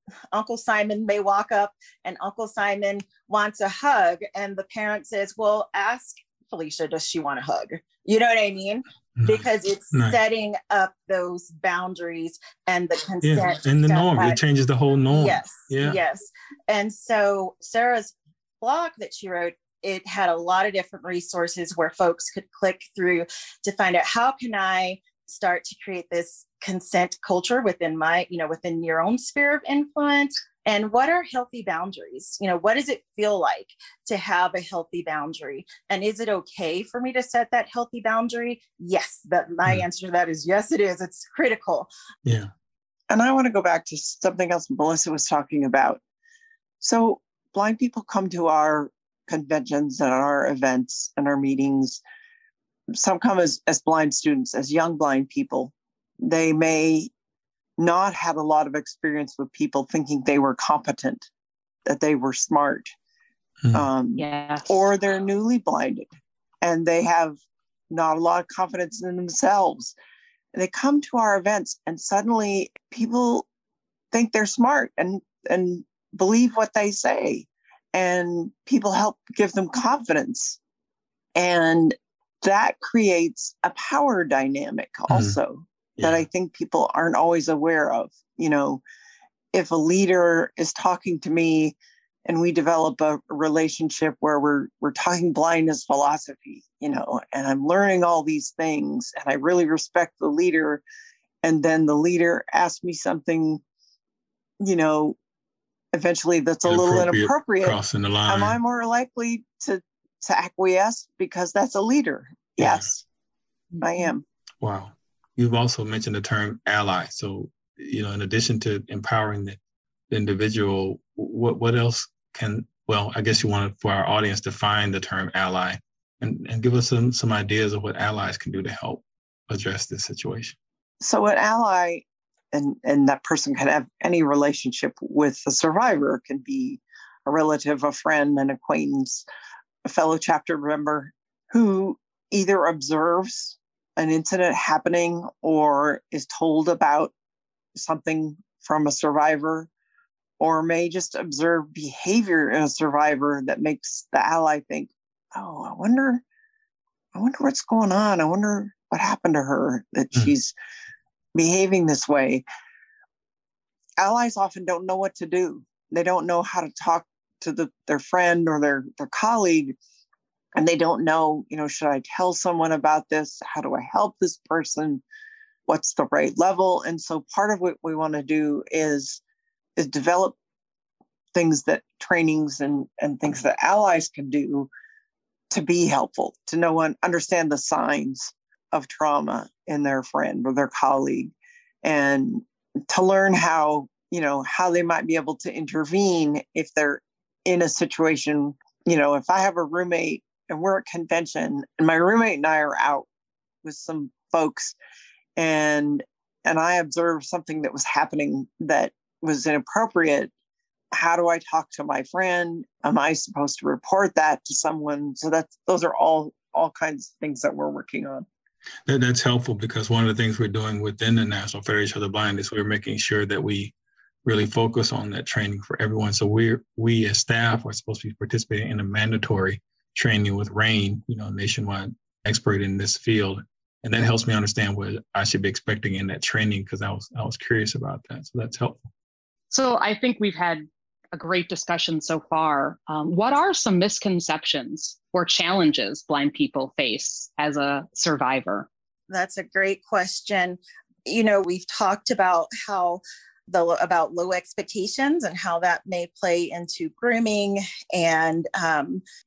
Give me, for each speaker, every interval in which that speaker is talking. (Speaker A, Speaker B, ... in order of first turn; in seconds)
Speaker A: 0.3-14.4, 15.1-41.9, 249.1-259.0
Speaker B: 9.2-10.2, 13.2-16.0, 42.2-42.5, 63.6-63.9, 85.1-85.4, 86.0-86.2, 106.7-108.6, 112.6-112.9, 114.6-119.6, 120.1-130.6, 218.9-223.7, 224.2-238.9
Speaker C: 43.1-46.0, 46.8-52.0, 52.9-57.1, 57.8-61.3, 61.9-62.9, 63.7-66.1, 66.6-67.4, 67.9-70.0, 70.5-73.5, 74.1-80.6, 81.3-88.8, 89.5-100.8, 101.4-103.6, 104.6-105.2, 105.9-113.0, 113.8-114.2, 131.0-139.2, 139.8-147.1, 147.8-149.7, 150.4-156.2, 157.1-160.5, 161.3-162.4, 164.0-169.8, 170.6-175.0, 175.7-179.2, 179.8-180.3, 181.3-184.7, 185.5-203.1, 203.6-204.8, 205.4-210.3, 210.9-218.3
Speaker D: 64.2-64.8, 239.5-248.7